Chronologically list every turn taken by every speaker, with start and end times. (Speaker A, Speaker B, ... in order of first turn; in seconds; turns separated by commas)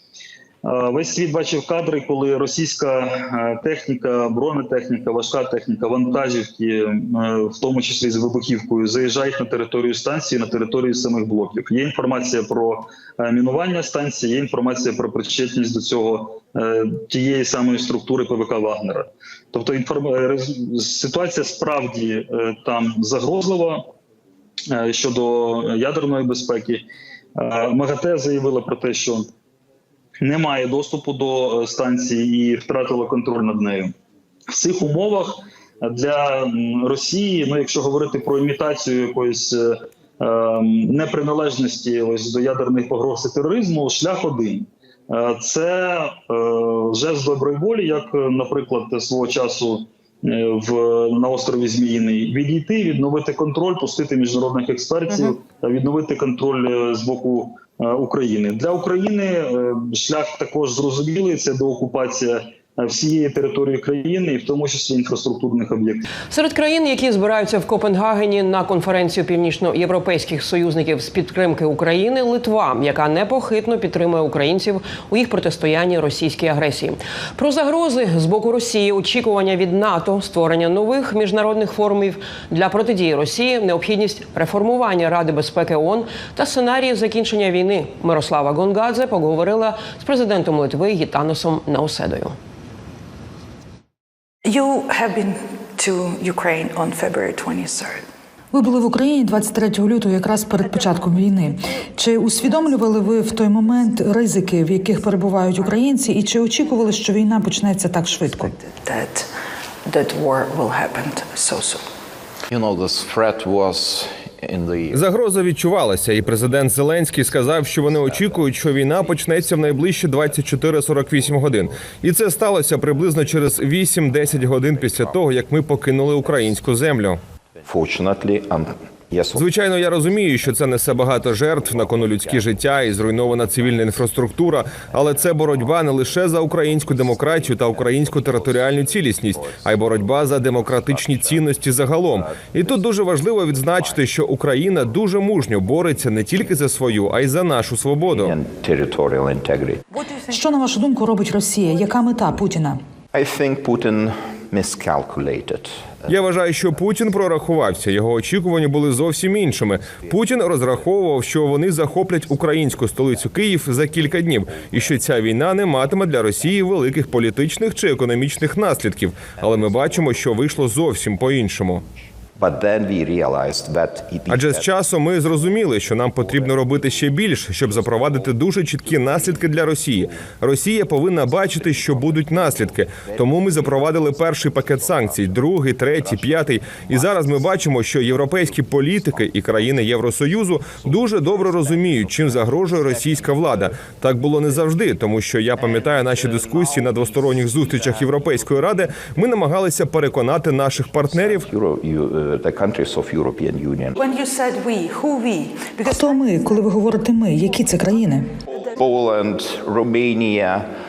Speaker A: 0.6-23.8, Speaker A: 24.7-26.8, Speaker A: 27.4-29.3, Speaker A: 30.2-33.9, Speaker A: 34.5-66.0, Speaker B: 66.3-92.3, Speaker C: 94.4-98.1, Speaker D: 98.5-108.5, Speaker C: 100.3-109.3, Speaker C: 109.8-111.9, Speaker E: 112.5-115.1, Speaker F: 114.9-127.2, Speaker E: 116.1-145.0, Speaker F: 129.3-148.4, Speaker E: 145.5-147.2, Speaker E: 148.1-149.8, Speaker C: 149.9-152.5, Speaker D: 150.3-152.8, Speaker E: 153.1-158.2, Speaker F: 156.1-171.8, Speaker E: 159.1-195.0, Speaker F: 174.3-201.5, Speaker E: 195.6-199.4, Speaker E: 200.0-204.0, Speaker C: 204.0-208.8, Speaker D: 205.9-208.3, Speaker E: 208.6-210.7